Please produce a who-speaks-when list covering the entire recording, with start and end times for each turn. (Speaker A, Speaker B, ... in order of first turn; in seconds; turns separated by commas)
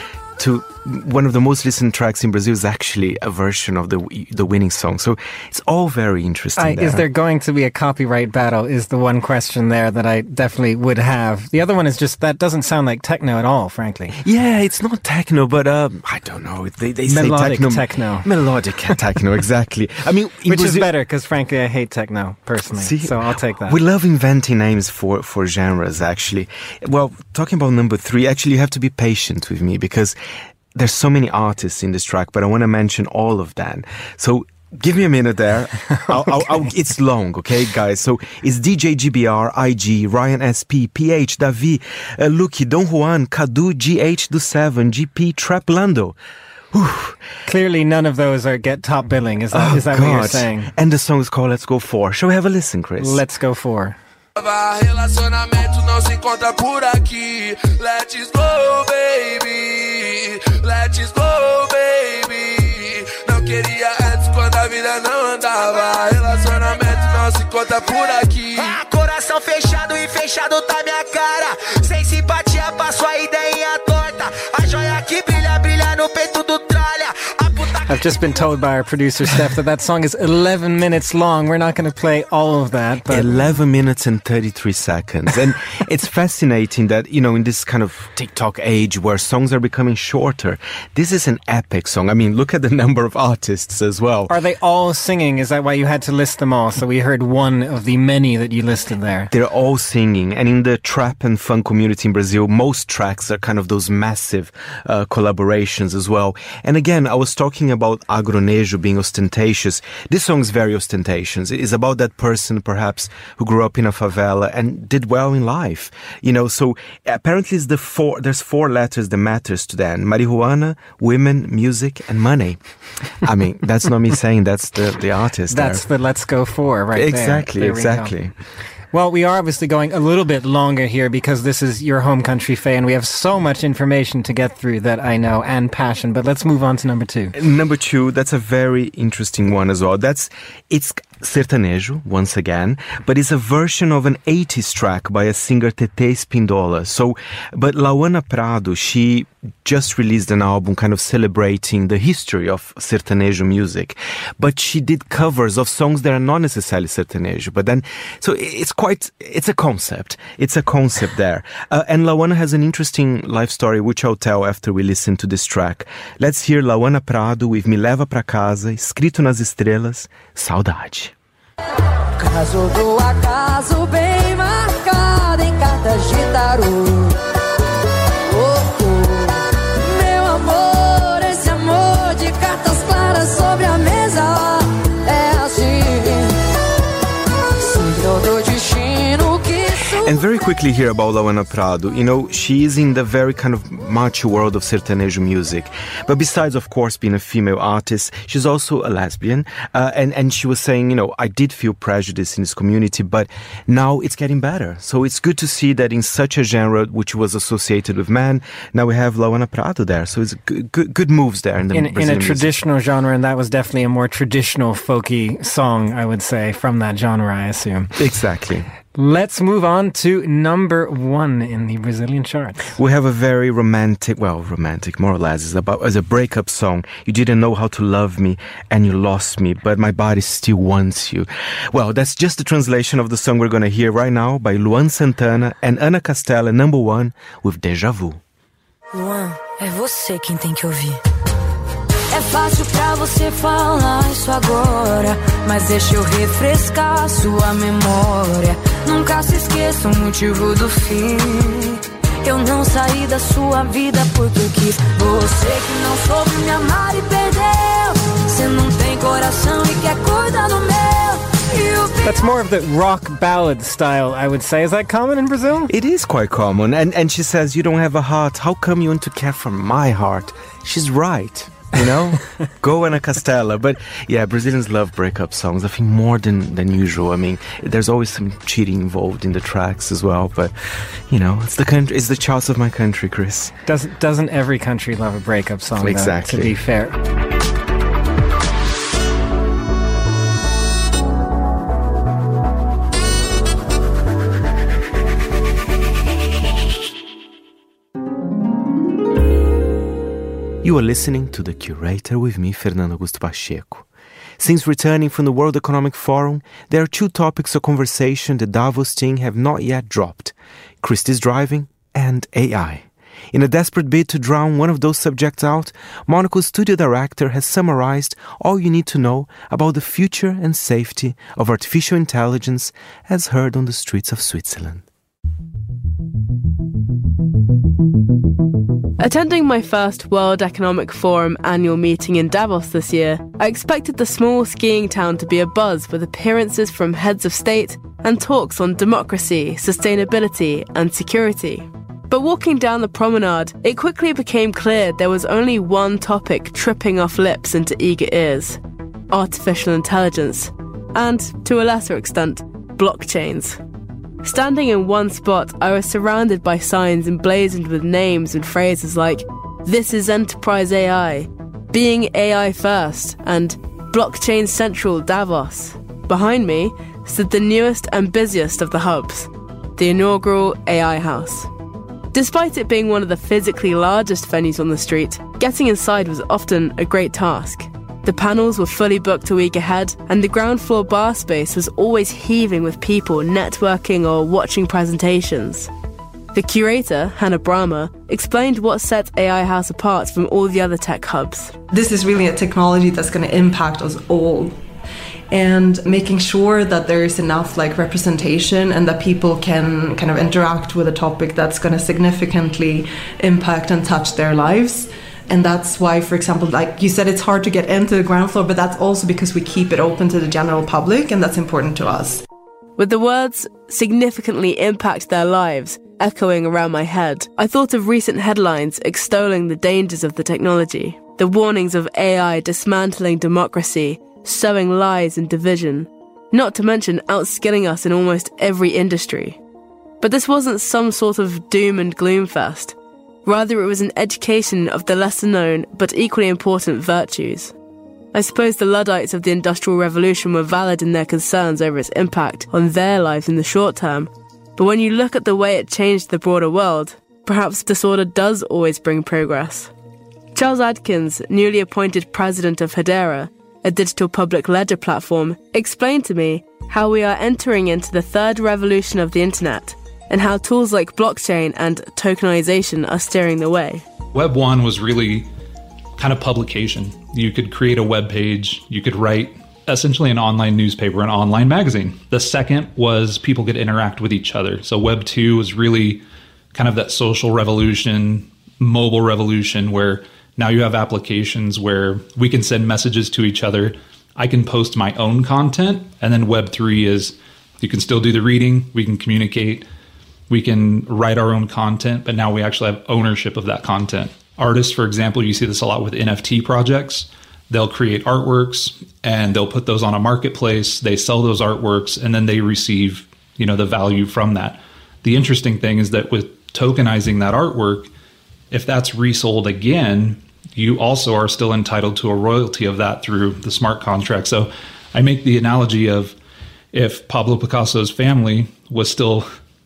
Speaker A: 0.4-7.0, Speaker B: 6.6-14.2, Speaker A: 14.2-20.9, Speaker B: 17.1-18.3, Speaker B: 20.4-23.8, Speaker A: 22.7-30.2, Speaker A: 30.7-46.1, Speaker A: 46.7-47.2, Speaker B: 47.5-50.7, Speaker A: 49.5-53.2, Speaker B: 53.0-54.0, Speaker C: 54.4-68.7, Speaker D: 68.6-78.1, Speaker B: 77.9-83.4, Speaker A: 83.1-94.3, Speaker B: 94.3-99.3, Speaker A: 99.3-125.9, Speaker B: 125.5-128.1, Speaker A: 126.9-128.3, Speaker B: 128.9-137.3, Speaker A: 137.3-171.1, Speaker E: 172.2-177.2, Speaker E: 178.2-186.4, Speaker E: 187.6-190.1, Speaker A: 189.8-212.5, Speaker B: 211.7-217.9, Speaker A: 217.9-218.7, Speaker B: 218.9-222.7, Speaker A: 222.7-238.2, Speaker E: 238.9-241.0, Speaker E: 242.1-262.3, Speaker B: 262.0-265.7, Speaker A: 265.7-283.5, Speaker B: 283.6-286.9, Speaker A: 285.8-286.6, Speaker A: 300.6-303.9, Speaker A: 304.4-324.8, Speaker F: 329.0-348.6, Speaker F: 349.1-353.6, Speaker F: 354.2-371.5, Speaker F: 372.1-385.7, Speaker F: 386.3-391.6, Speaker G: 391.7-394.5, Speaker G: 395.3-412.2, Speaker F: 412.8-429.4, Speaker F: 430.0-437.5, Speaker F: 438.1-449.7, Speaker F: 450.3-463.8, Speaker H: 464.1-465.3, Speaker H: 466.0-476.0, Speaker H: 476.5-489.6, Speaker H: 490.3-507.9, Speaker H: 508.5-516.1, Speaker H: 516.7-519.3